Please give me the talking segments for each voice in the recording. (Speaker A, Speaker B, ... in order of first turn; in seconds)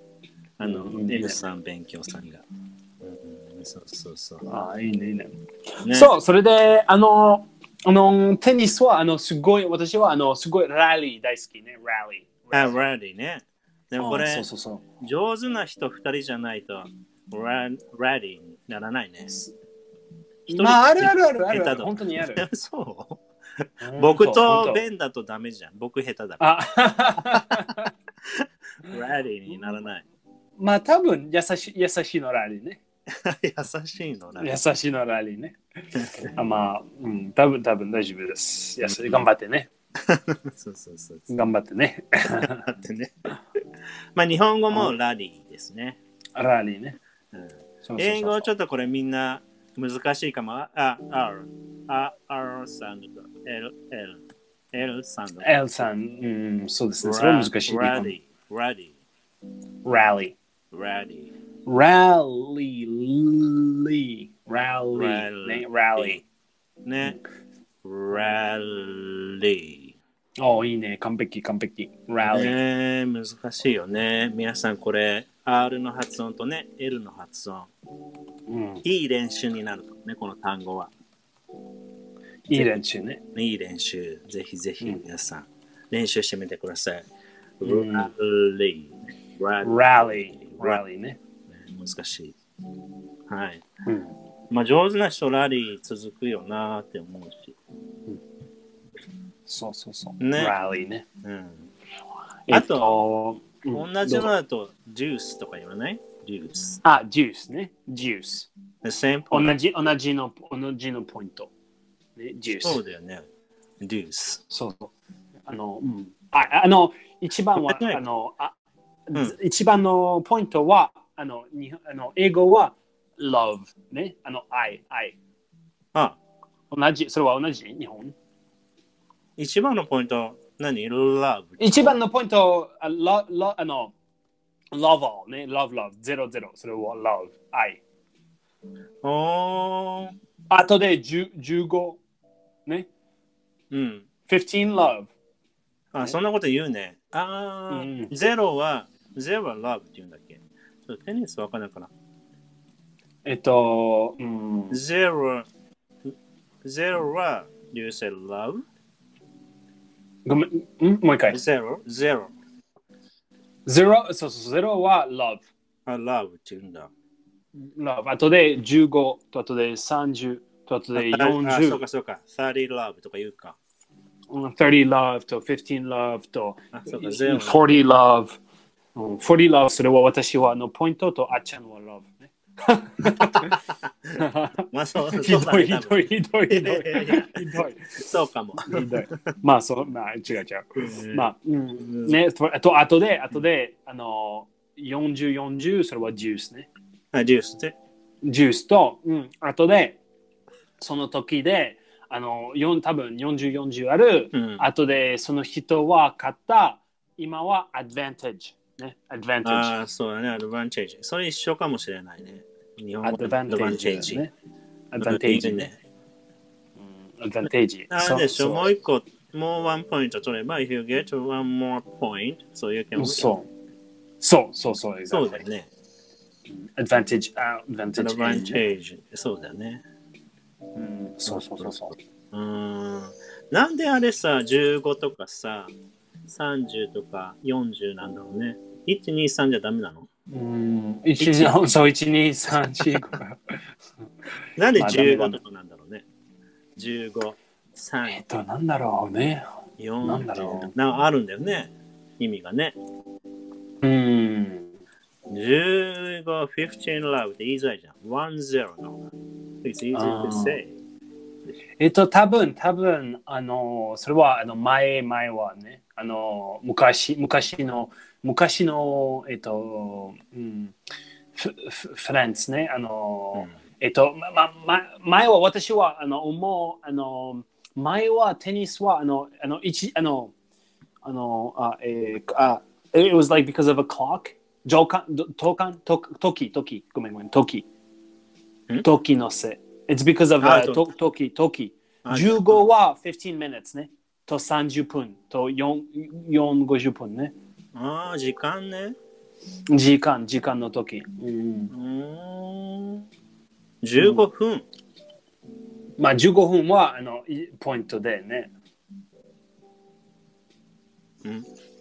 Speaker A: 0.6-2.4, 3.0-4.4, 5.8-6.1, 12.5-14.4, 15.0-19.4, 20.5-23.2, 23.9-26.6, 27.2-27.6, 28.3-30.0, 33.1-34.5, 35.9-36.3, 38.8-39.2, 40.0-41.3, 42.3-43.3, 44.1-46.0, 47.3-55.6, 57.0-59.0, 60.7-61.3, 64.9-66.2, 66.8-67.2, 67.8-70.0, 72.3-77.7, 78.8-80.9, 82.5-82.8, 83.3-87.1, 87.6-90.8, 91.5-92.3, 93.3-93.6, 94.5-97.6, 100.2-100.5, 101.2-101.7, 102.5-103.0, 103.7-106.8, 108.8-109.5, 112.6-113.2, 113.8-114.4, 117.5-118.0, 129.4-131.9, 139.0-140.1, 143.7-144.0, 145.9-151.9, 154.7-155.4, 156.6-158.6, 161.3-162.3, 165.8-166.9, 170.9-173.6, 176.7-177.7, 183.1-189.2, 190.8-192.1, 197.1-197.7, 204.3-204.6, 209.4-214.2, 215.0-215.8, 217.9-223.3, 225.1-225.7, 228.0-229.8, 231.2-235.7, 236.2-240.1, 241.2-241.6, 244.6-246.0, 246.8-248.2, 249.8-252.8, 255.3-259.0, 259.6-260.8, 290.4-290.8, 292.0-292.6, 297.7-298.9, 301.7-303.0, 303.8-304.6
Speaker B: 0.6-1.4, 4.5-12.8, 14.0-14.8, 20.5-22.4, 23.8-24.8, 26.4-27.9, 30.6-32.8, 34.4-35.6, 36.3-39.7, 41.3-42.7, 46.4-47.0, 47.8-48.5, 55.4-58.1, 59.8-60.4, 61.6-66.2, 70.4-72.6, 78.5-78.8, 82.5-83.2, 87.6-88.1, 89.6-91.2, 93.8-94.1, 99.5-101.0, 102.5-104.3, 106.8-108.5, 109.3-111.5, 112.2-112.8, 114.5-114.9, 115.5-118.5, 119.1-125.2, 126.7-128.1, 131.6-133.9, 134.7-137.8, 140.5-142.0, 144.3-145.1, 147.7-148.1, 153.2-154.8, 160.2-161.4, 163.7-165.5, 167.6-171.8, 174.3-178.4, 178.9-183.6, 184.2-188.0, 188.6-196.7, 198.2-200.0, 200.8-209.7, 213.0-214.3, 214.9-215.7, 217.1-218.7, 222.9-223.5, 224.2-225.4, 226.5-228.6, 230.8-231.9, 240.3-243.6, 244.8-245.4, 248.1-249.4, 250.0-250.7, 253.8-254.7, 259.9-260.6, 261.8-270.7, 271.4-280.3, 281.0-287.7, 288.8-297.3, 299.7-301.7, 304.0-304.2, 306.0-308.5